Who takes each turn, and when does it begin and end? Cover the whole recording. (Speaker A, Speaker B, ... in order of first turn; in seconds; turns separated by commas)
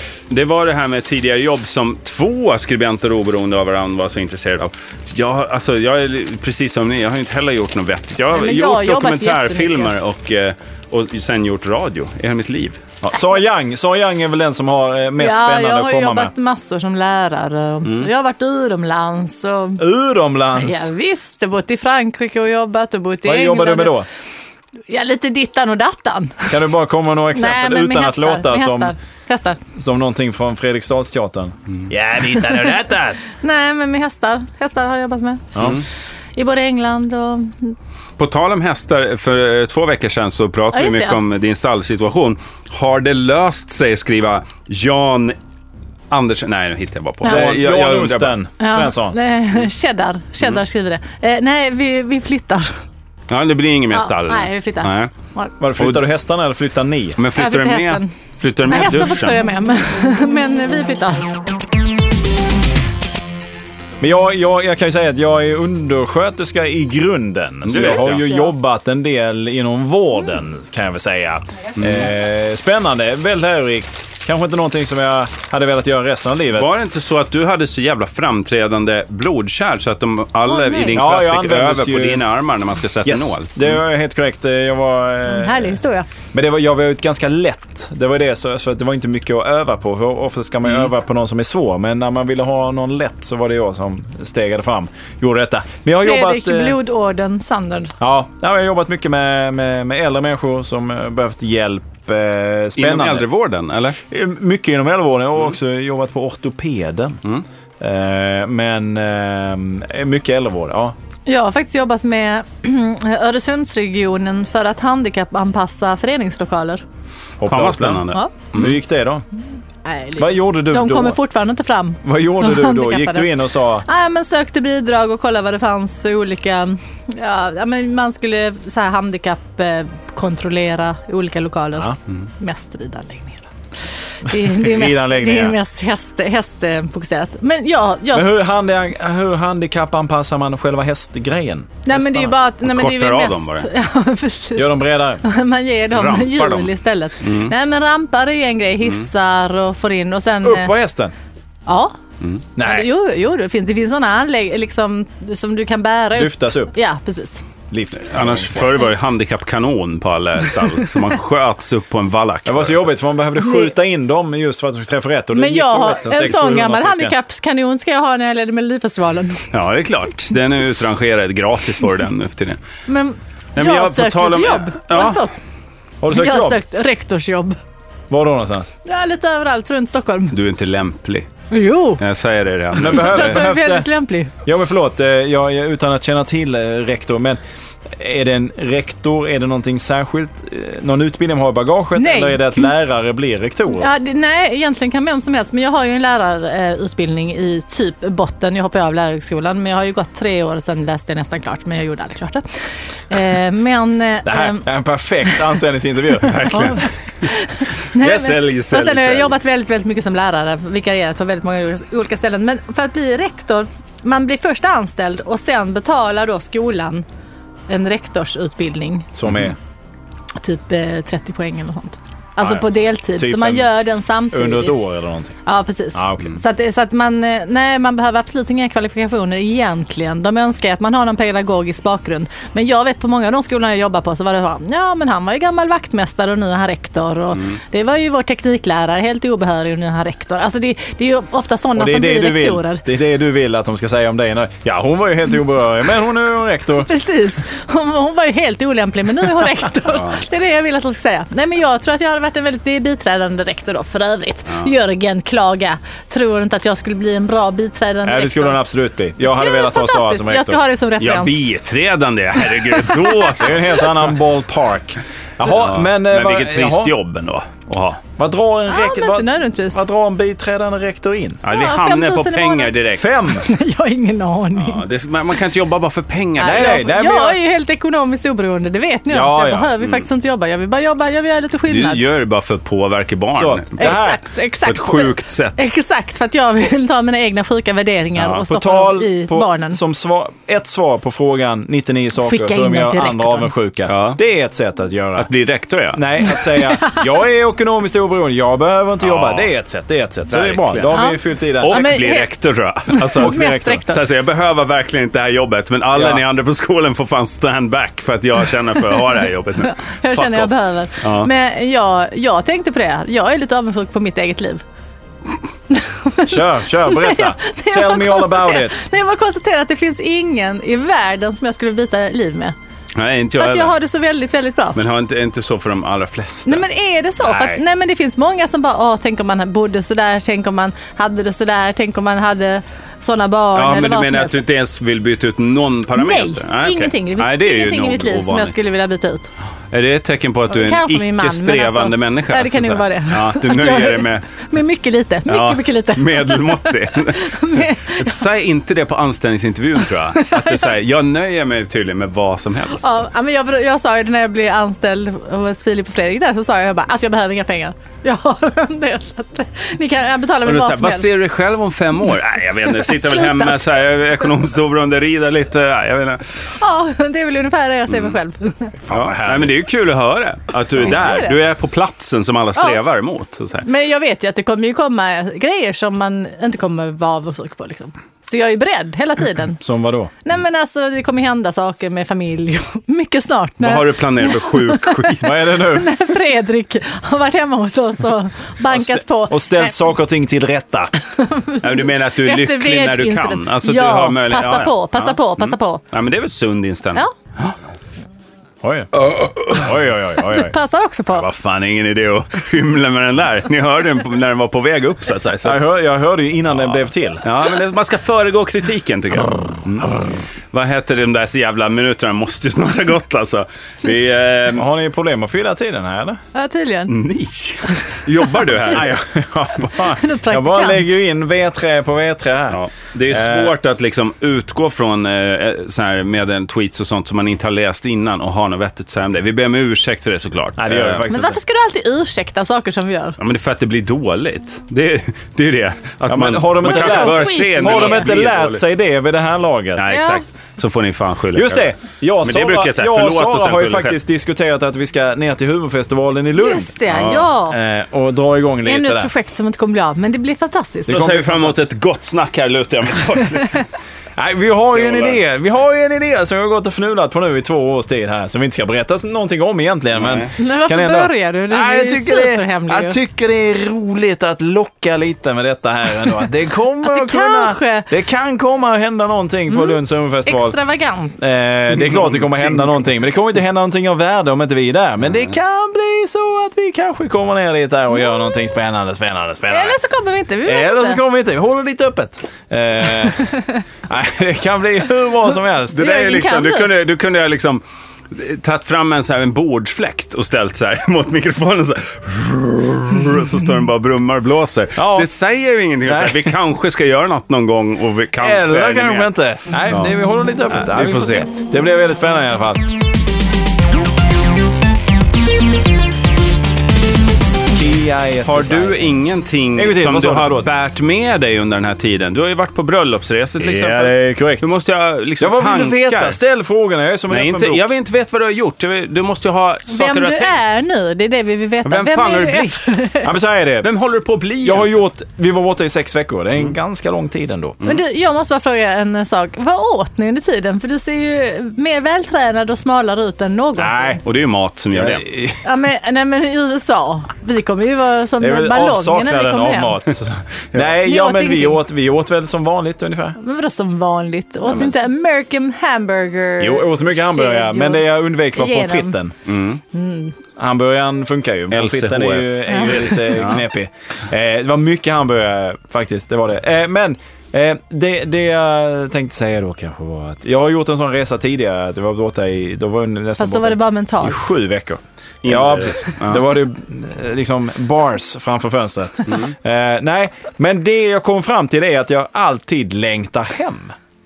Speaker A: 0.3-13.1, Speaker B: 8.3-9.9, Speaker C: 13.1-16.3, Speaker B: 15.2-19.8, Speaker A: 17.8-18.1, Speaker C: 19.8-20.9, Speaker B: 20.6-24.0, Speaker C: 23.2-24.1, Speaker B: 24.9-26.6, Speaker C: 26.5-28.9, Speaker B: 27.3-29.6, Speaker C: 29.7-33.2, Speaker B: 33.3-35.5, Speaker C: 35.5-35.8, Speaker A: 35.6-35.8, Speaker B: 36.4-37.7, Speaker A: 38.2-45.4, Speaker B: 40.7-41.2, Speaker A: 46.1-48.4, Speaker C: 47.2-49.1, Speaker B: 48.6-52.8, Speaker A: 53.3-55.1, Speaker B: 53.9-55.5, Speaker C: 55.6-57.2, Speaker A: 55.8-56.1, Speaker A: 57.2-59.4, Speaker B: 57.3-58.1, Speaker B: 58.7-61.3, Speaker C: 64.0-76.7, Speaker A: 67.7-68.2, Speaker B: 67.7-68.5, Speaker A: 71.8-72.1, Speaker A: 76.5-83.7, Speaker B: 80.5-81.0, Speaker C: 80.9-82.2, Speaker C: 83.0-85.8, Speaker B: 85.3-86.1, Speaker C: 86.3-96.8, Speaker B: 96.0-97.9, Speaker C: 98.0-103.3, Speaker A: 102.8-104.0, Speaker C: 104.1-107.2, Speaker C: 107.8-110.9, Speaker B: 111.2-116.8, Speaker C: 117.4-119.2, Speaker A: 117.4-118.7, Speaker B: 119.8-123.3, Speaker C: 120.2-121.2, Speaker C: 122.0-123.8, Speaker B: 123.8-138.4, Speaker C: 134.3-135.6, Speaker C: 138.1-142.3, Speaker B: 141.8-150.7, Speaker A: 142.6-143.7, Speaker C: 144.6-145.2, Speaker A: 145.9-146.7, Speaker A: 147.2-147.5, Speaker C: 150.4-151.1, Speaker B: 151.7-152.0, Speaker C: 152.6-152.9, Speaker B: 152.6-157.4, Speaker C: 156.1-156.7, Speaker C: 157.7-158.7, Speaker A: 158.1-162.9, Speaker C: 162.4-167.1, Speaker B: 163.3-163.7, Speaker B: 165.3-169.5, Speaker A: 169.5-172.6, Speaker B: 172.9-175.3, Speaker A: 173.6-175.2, Speaker C: 176.0-176.6, Speaker B: 176.1-177.6, Speaker C: 178.1-178.7, Speaker B: 178.8-180.3, Speaker A: 180.3-181.3, Speaker B: 181.5-182.0, Speaker A: 182.0-183.4, Speaker C: 182.8-193.9, Speaker B: 182.8-184.3, Speaker B: 192.0-192.7, Speaker B: 193.7-202.4, Speaker B: 203.1-204.7, Speaker C: 204.2-206.8, Speaker A: 206.2-207.3, Speaker B: 206.5-217.1, Speaker A: 207.9-209.3, Speaker B: 217.7-219.1, Speaker C: 219.1-219.6, Speaker B: 220.4-224.8, Speaker C: 222.4-223.7, Speaker C: 224.3-225.4, Speaker B: 225.4-242.8, Speaker C: 225.9-226.4, Speaker C: 241.8-246.9, Speaker B: 246.8-258.6, Speaker A: 249.9-250.2, Speaker C: 258.0-260.6, Speaker B: 259.2-261.4, Speaker A: 261.0-264.0, Speaker B: 262.6-263.4, Speaker C: 263.4-266.9, Speaker A: 265.4-268.0, Speaker C: 268.2-271.4, Speaker B: 268.7-269.8, Speaker A: 271.4-273.1, Speaker B: 271.4-272.8, Speaker C: 272.9-273.4, Speaker B: 273.3-274.8, Speaker A: 274.6-276.8, Speaker B: 276.4-282.0, Speaker C: 276.4-277.4, Speaker C: 279.1-279.7, Speaker A: 281.7-284.0, Speaker C: 283.3-284.2, Speaker B: 283.8-289.8, Speaker A: 284.6-285.6, Speaker A: 288.1-288.4, Speaker C: 288.5-295.3, Speaker B: 292.2-293.5, Speaker A: 293.9-294.2, Speaker A: 295.2-296.0, Speaker C: 295.9-302.0, Speaker B: 296.5-297.0, Speaker A: 299.0-299.5, Speaker A: 300.3-301.1, Speaker B: 300.9-302.3, Speaker A: 301.6-310.5, Speaker B: 302.9-304.0, Speaker C: 303.0-303.8, Speaker C: 305.9-306.2, Speaker B: 309.6-314.6, Speaker A: 311.0-311.3, Speaker B: 315.7-322.5, Speaker C: 316.2-318.8, Speaker A: 322.9-323.7, Speaker B: 323.4-324.8, Speaker A: 324.7-326.6, Speaker B: 326.4-334.4, Speaker C: 327.2-327.6, Speaker A: 333.5-338.6, Speaker B: 335.9-339.3, Speaker A: 339.7-344.2, Speaker B: 340.5-348.2, Speaker A: 345.3-352.9, Speaker B: 350.1-350.7, Speaker B: 352.8-361.1, Speaker A: 360.4-366.5, Speaker B: 362.8-363.6, Speaker B: 366.6-368.8, Speaker C: 368.9-369.5, Speaker A: 368.9-373.6, Speaker B: 370.8-371.4, Speaker B: 373.6-379.6, Speaker C: 379.6-380.1, Speaker B: 380.2-389.8, Speaker A: 383.6-385.4, Speaker C: 385.2-385.9, Speaker C: 388.7-390.9, Speaker B: 391.0-395.8, Speaker A: 391.6-397.6, Speaker C: 398.6-398.9, Speaker C: 399.5-400.5, Speaker B: 400.2-401.2, Speaker A: 401.1-405.6, Speaker C: 405.4-407.2, Speaker A: 406.6-414.6, Speaker C: 414.5-416.2, Speaker B: 416.3-416.9, Speaker A: 416.9-418.9, Speaker B: 417.7-418.8, Speaker C: 418.7-423.5, Speaker B: 419.8-420.8, Speaker A: 422.5-431.1, Speaker C: 430.6-431.4, Speaker B: 431.1-433.2, Speaker A: 433.2-438.6, Speaker C: 436.1-439.8, Speaker B: 436.6-438.1, Speaker A: 439.8-441.7, Speaker B: 439.9-440.2, Speaker C: 441.3-449.1, Speaker A: 442.2-444.0, Speaker B: 446.3-447.6, Speaker A: 446.9-447.3, Speaker B: 448.6-451.0, Speaker C: 450.9-451.7, Speaker A: 450.9-453.7, Speaker C: 454.2-470.6, Speaker A: 454.7-455.2, Speaker A: 460.0-460.3, Speaker B: 460.4-463.0, Speaker B: 466.8-467.9, Speaker B: 469.5-471.2, Speaker C: 471.2-479.8, Speaker B: 479.5-481.0, Speaker C: 480.4-486.0, Speaker A: 485.7-499.1, Speaker B: 485.7-486.7, Speaker C: 494.8-495.1, Speaker C: 495.8-496.4, Speaker C: 498.2-502.7, Speaker A: 499.6-499.9, Speaker A: 500.5-501.3, Speaker C: 507.5-510.5, Speaker A: 508.2-516.2, Speaker C: 513.4-514.5, Speaker C: 515.2-517.7, Speaker A: 517.1-520.4, Speaker B: 519.7-523.1, Speaker A: 521.6-522.7, Speaker C: 523.0-523.7, Speaker A: 523.6-524.7, Speaker C: 524.4-527.6, Speaker B: 527.6-534.0, Speaker C: 533.5-534.0, Speaker A: 534.0-535.0, Speaker C: 534.7-535.4, Speaker B: 535.4-539.8, Speaker C: 538.2-543.2, Speaker B: 540.7-541.6, Speaker B: 543.2-549.0, Speaker C: 546.4-549.2, Speaker A: 549.2-549.6, Speaker B: 549.7-550.1, Speaker C: 550.4-573.8, Speaker A: 551.5-553.5, Speaker B: 552.5-553.1, Speaker B: 563.2-564.2, Speaker A: 565.2-566.2, Speaker A: 569.1-569.3